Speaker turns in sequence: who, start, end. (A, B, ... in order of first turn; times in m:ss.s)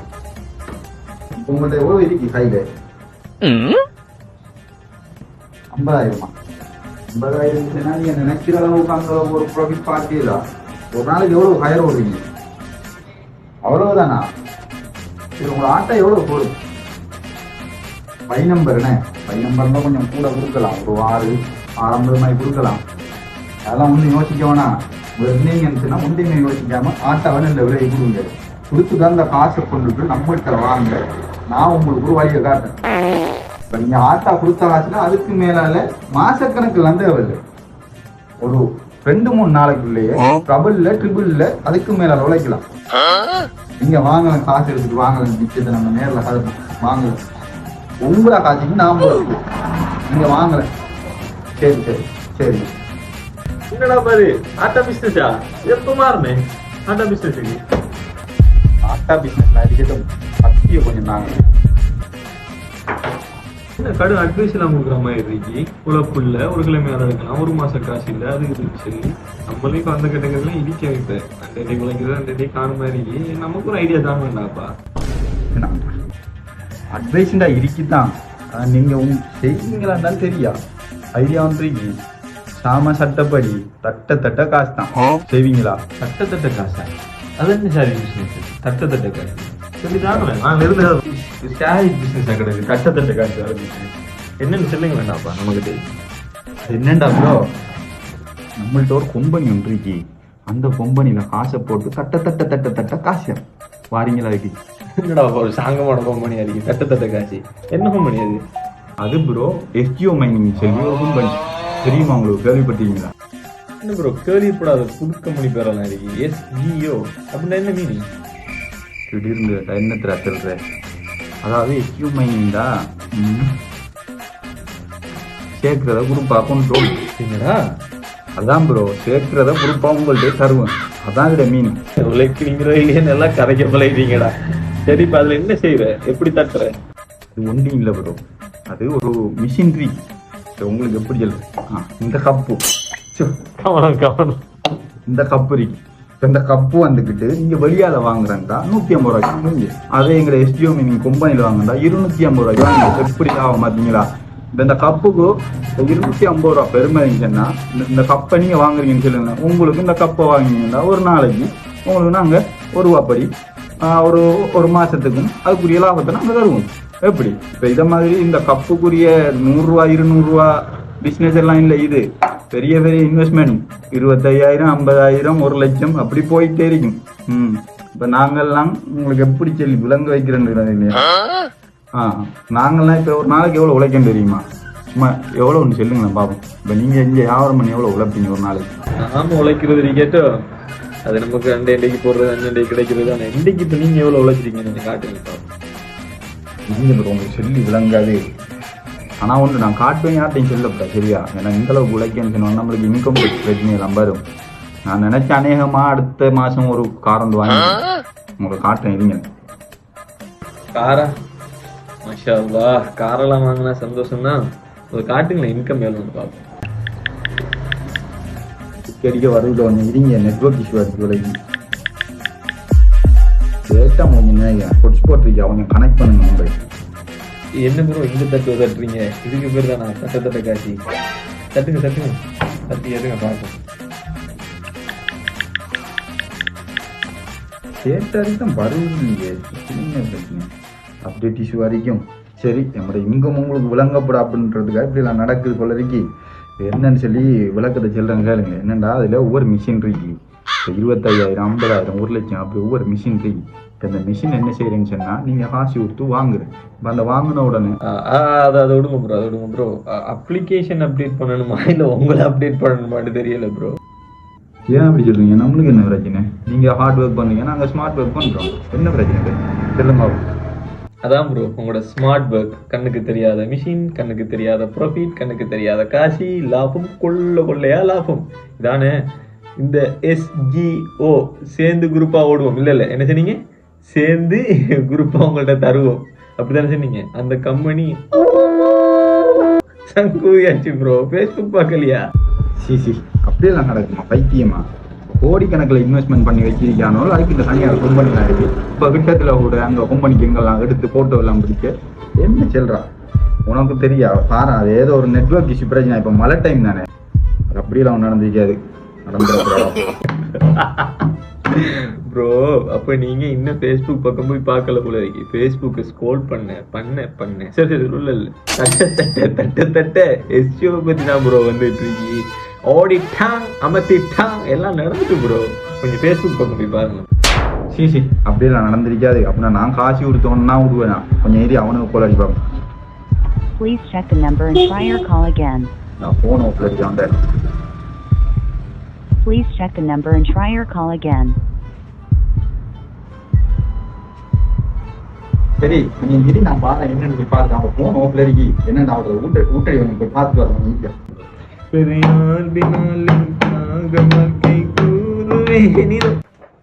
0:01.4-0:02.6 A
0:05.7-0:06.3 A
0:07.1-0:10.4 A
0:11.0-0:12.2 A
0:13.7-0:14.2 A
0:15.4-0:16.5 A
0:18.3-0:22.8 A
0:23.7-0:31.0 A
0:31.5-0:32.8 A
0:33.7-0:37.4 A
0:38.4-0:42.6 A
0:43.8-0:47.2 A
0:48.0-0:49.4 A
0:50.1-0:50.7 A
0:51.6-0:52.7 A
0:53.7-0:57.6 B
0:58.9-1:01.3 A
1:03.8-1:14.7 B
1:15.5-1:15.8 A
1:16.9-1:20.6 A
1:21.2-1:21.9 A
1:22.6-1:25.8 A
1:26.0-1:35.8 B
1:36.6-1:37.4 A
1:38.6-1:44.6 A
1:45.0-1:48.4 B
1:49.0-1:53.1 A
1:53.8-1:58.1 B
1:59.1-2:00.6 A
2:01.4-2:03.6 A
2:05.6-2:07.0 A
2:07.2-2:07.6 B
2:08.4-2:11.8 A
2:12.0-2:14.3 B
2:14.8-2:16.7 B
2:17.3-2:20.0 A
2:20.6-2:22.6 A
2:23.2-2:24.4 B
2:25.1-2:43.3 A
2:43.8-3:01.0 A
3:02.0-3:04.4 A
3:05.0-3:08.7 A
3:09.0-3:10.3 B
3:11.0-3:15.5 B
3:16.7-3:18.2 A
3:19.2-3:24.2 A
3:24.9-3:27.8 A
3:28.4-3:29.2 A
3:30.7-3:31.1 B
3:32.0-3:34.4 B
3:34.9-3:36.4 B
3:38.8-3:41.4 A
3:43.7-3:46.5 A
3:47.6-3:50.8 B
3:51.5-3:53.6 B
3:57.8-4:00.5 A
4:01.0-4:06.0 A
4:06.6-4:17.8 A
4:17.9-4:23.8 B
4:24.7-4:30.2 A
4:31.0-4:39.0 B
4:39.6-4:48.4 B
4:49.9-4:52.0 B
4:52.6-4:54.6 A
4:55.2-5:02.9 A
5:03.5-5:06.9 A
5:07.5-5:09.9 A
5:10.2-5:27.1 B
5:27.7-5:32.4 A
5:33.6-5:35.7 C
5:36.0-5:37.1 A
5:39.2-5:41.4 C
5:45.6-5:50.9 A
5:51.7-5:56.2 B